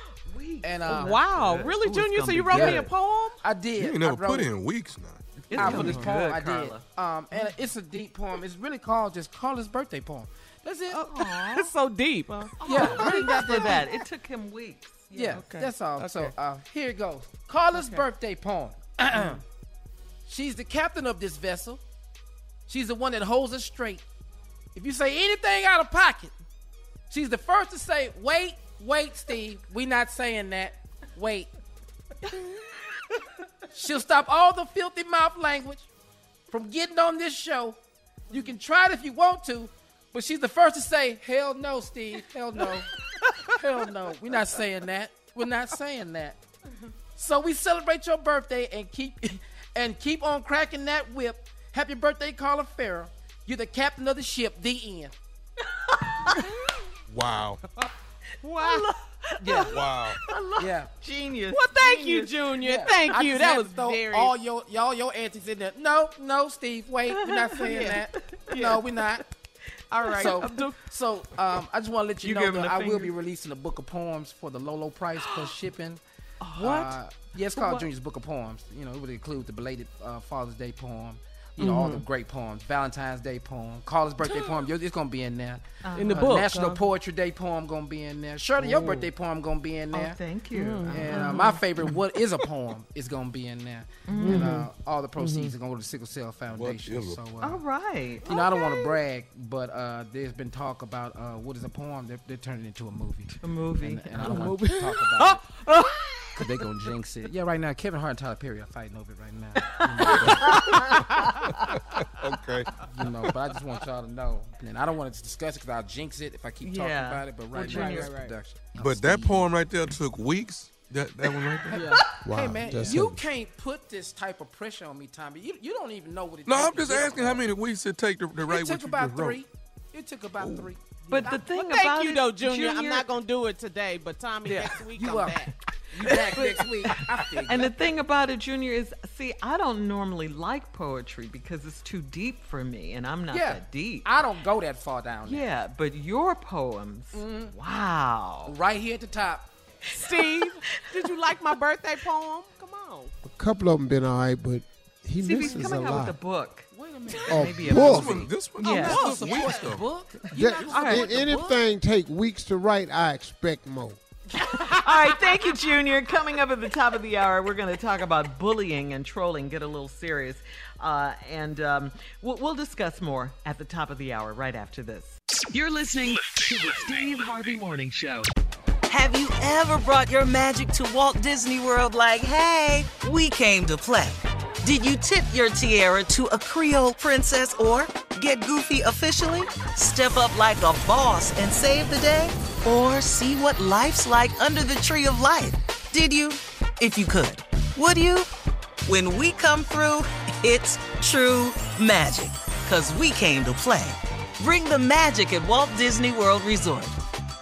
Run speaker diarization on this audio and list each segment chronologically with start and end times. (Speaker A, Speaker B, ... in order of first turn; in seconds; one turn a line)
Speaker A: 0.2-2.9
Speaker B: 0.6-1.2
Speaker C: 0.9-3.4
Speaker B: 2.5-2.9
Speaker B: 3.4-4.5
Speaker D: 3.8-5.2
Speaker A: 5.4-6.8
Speaker C: 5.5-6.1
Speaker B: 5.5-11.1
Speaker C: 10.9-13.2
Speaker A: 11.2-11.7
Speaker B: 12.6-13.9
Speaker A: 12.6-16.3
Speaker B: 15.1-19.4
Speaker C: 17.8-18.0
Speaker B: 20.3-21.8
Speaker B: 22.7-24.0
Speaker B: 24.7-26.3
Speaker B: 27.1-31.5
Speaker B: 33.7-35.9
Speaker B: 36.5-37.8
Speaker B: 38.3-42.9
Speaker B: 43.5-46.4
Speaker B: 47.2-55.1
Speaker A: 55.9-56.4
Speaker D: 57.1-57.6
Speaker C: 58.4-58.8
Speaker A: 58.5-62.9
Speaker B: 59.4-59.7
Speaker D: 59.7-60.2
Speaker B: 60.6-60.9
Speaker C: 61.5-64.3
Speaker B: 62.6-69.2
Speaker A: 67.2-68.0
Speaker C: 67.7-68.0
Speaker C: 68.5-68.8
Speaker C: 69.9-70.8
Speaker B: 70.2-76.0
Speaker A: 70.2-70.6
Speaker A: 72.2-73.1
Speaker A: 75.2-75.5
Speaker A: 76.4-77.0
Speaker B: 76.5-90.2
Speaker C: 81.6-82.0
Speaker A: 85.8-86.5
Speaker C: 86.0-86.8
Speaker A: 89.9-91.6
Speaker C: 90.5-91.3
Speaker B: 90.9-97.6
Speaker A: 94.1-94.7
Speaker C: 94.2-94.6
Speaker C: 95.2-95.5
Speaker D: 96.5-97.2
Speaker A: 97.4-98.7
Speaker B: 98.2-105.4
Speaker A: 103.4-104.8
Speaker C: 104.3-104.7
Speaker B: 106.4-110.7
Speaker A: 109.7-111.7
Speaker D: 110.2-111.0
Speaker D: 112.0-112.7
Speaker B: 112.9-119.5
Speaker A: 116.6-118.2
Speaker C: 117.5-118.4
Speaker D: 118.8-121.8
Speaker C: 121.7-122.0
Speaker E: 122.2-123.2
Speaker B: 122.3-127.5
Speaker D: 126.5-129.4
Speaker B: 128.5-131.4
Speaker D: 130.4-130.7
Speaker A: 131.1-133.1
Speaker C: 131.3-135.5
Speaker B: 134.4-137.7
Speaker A: 136.0-144.1
Speaker C: 136.1-136.3
Speaker B: 143.3-145.4
Speaker A: 145.2-148.5
Speaker B: 147.1-147.5
Speaker B: 148.5-149.5
Speaker A: 149.9-151.1
Speaker C: 149.9-153.1
Speaker E: 153.2-156.2
Speaker A: 155.2-159.7
Speaker B: 156.7-158.0
Speaker E: 157.3-158.2
Speaker D: 157.6-159.9
Speaker B: 158.6-161.6
Speaker E: 160.3-164.0
Speaker A: 160.7-161.2
Speaker A: 164.4-175.2
Speaker C: 164.7-165.4
Speaker F: 175.5-178.3
Speaker G: 178.9-198.3
Speaker G: 198.8-206.9